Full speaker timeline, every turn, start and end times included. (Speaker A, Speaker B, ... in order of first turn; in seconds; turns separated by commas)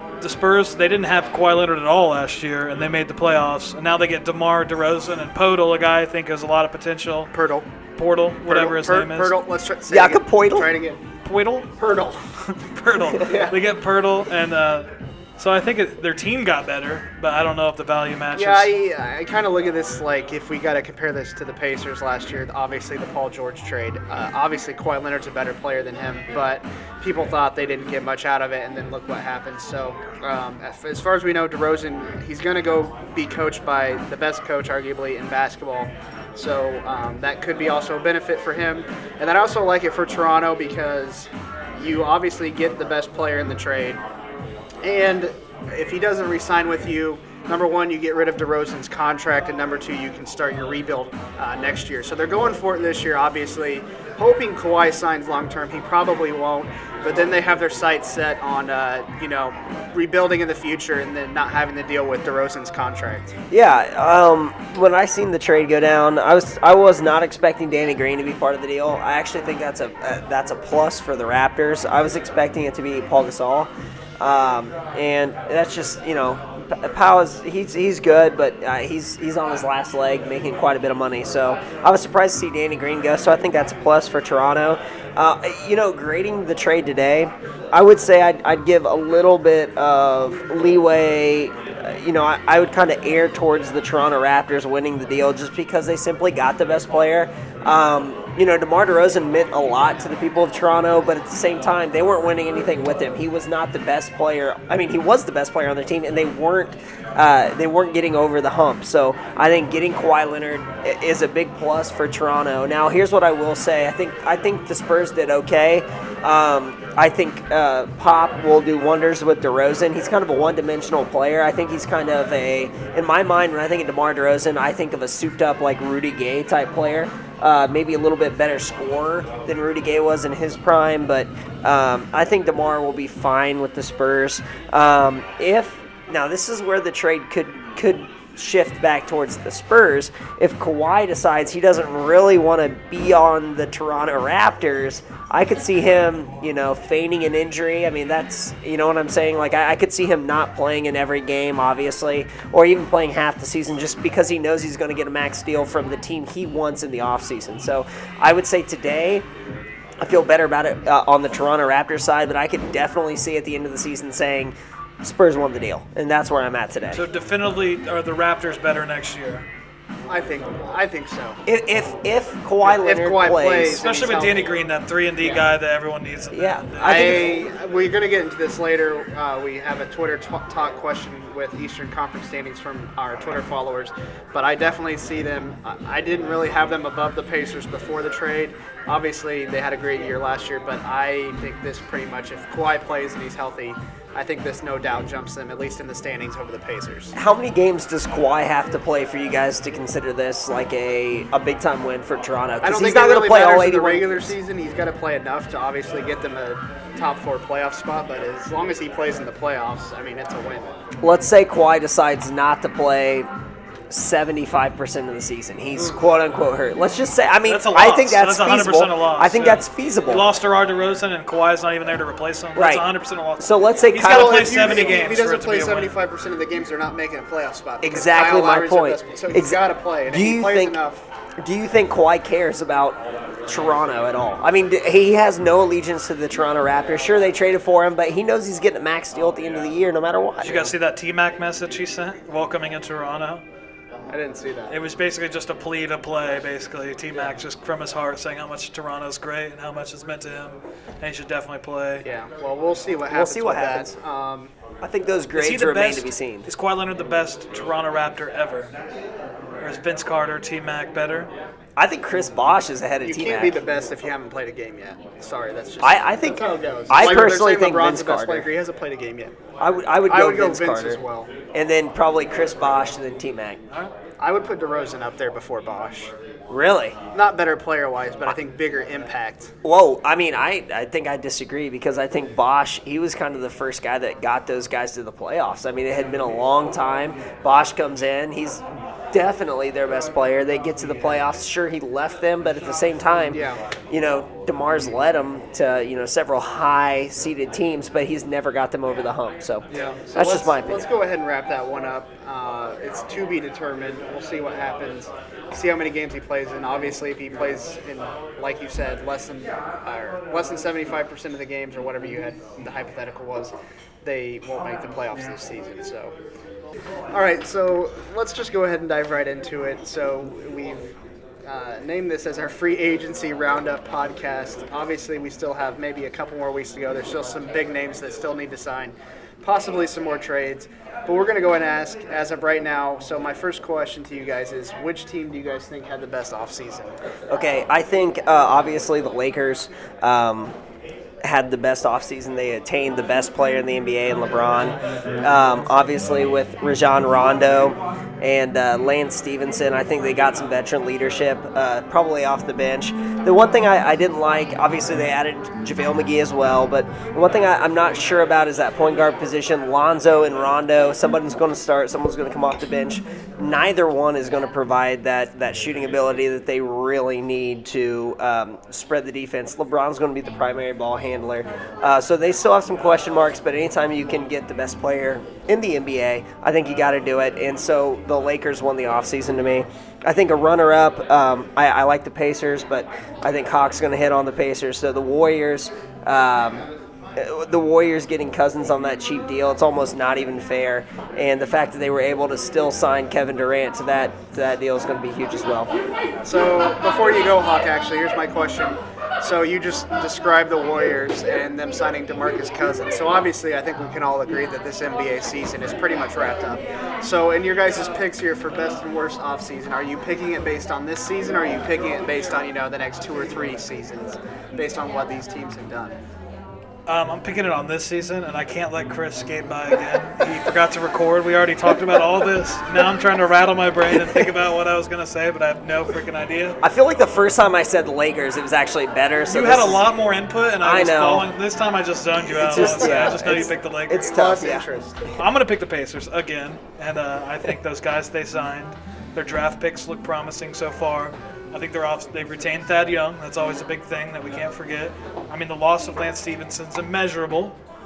Speaker A: 0.2-7.3, Speaker B: 7.3-7.7, Speaker A: 8.0-9.4, Speaker B: 8.5-11.0, Speaker C: 9.9-10.7, Speaker A: 11.2-11.7, Speaker B: 11.8-12.2, Speaker A: 12.5-18.7, Speaker B: 13.2-13.6, Speaker B: 18.3-44.0, Speaker B: 44.8-63.3, Speaker C: 63.5-159.2, Speaker C: 160.0-167.0, Speaker A: 166.9-169.4, Speaker B: 170.1-171.4, Speaker C: 171.4-173.8, Speaker B: 172.6-174.5, Speaker A: 173.8-177.3, Speaker C: 176.3-177.1, Speaker B: 176.8-197.1, Speaker C: 197.1-204.3, Speaker B: 202.6-210.8, Speaker C: 211.0-213.3, Speaker C: 213.9-220.2, Speaker A: 217.4-225.9, Speaker C: 222.5-222.9, Speaker C: 223.4-224.9, Speaker B: 224.0-231.1, Speaker C: 227.8-230.8, Speaker C: 231.4-240.7, Speaker A: 240.4-243.4, Speaker B: 244.1-244.7, Speaker A: 244.7-252.0, Speaker B: 252.0-254.5, Speaker C: 253.1-253.9, Speaker C: 254.8-256.5, Speaker A: 255.3-258.7, Speaker A: 259.6-261.3, Speaker C: 261.8-263.6, Speaker B: 263.0-269.3, Speaker C: 265.8-268.5, Speaker C: 269.6-271.0, Speaker B: 270.1-271.3, Speaker C: 271.5-273.6, Speaker B: 274.2-276.1, Speaker C: 276.5-277.0, Speaker B: 277.1-279.5, Speaker C: 279.6-300.9, Speaker B: 293.3-293.6, Speaker B: 299.7-316.1, Speaker B: 317.1-320.9, Speaker B: 321.4-336.9, Speaker C: 337.3-340.5, Speaker C: 341.2-395.7, Speaker B: 396.2-416.0, Speaker A: 416.9-426.6, Speaker C: 423.9-424.3, Speaker C: 426.6-429.8, Speaker A: 429.3-434.1, Speaker C: 430.6-431.3, Speaker C: 432.4-434.6, Speaker B: 432.4-433.4, Speaker B: 434.0-435.1, Speaker A: 435.2-447.6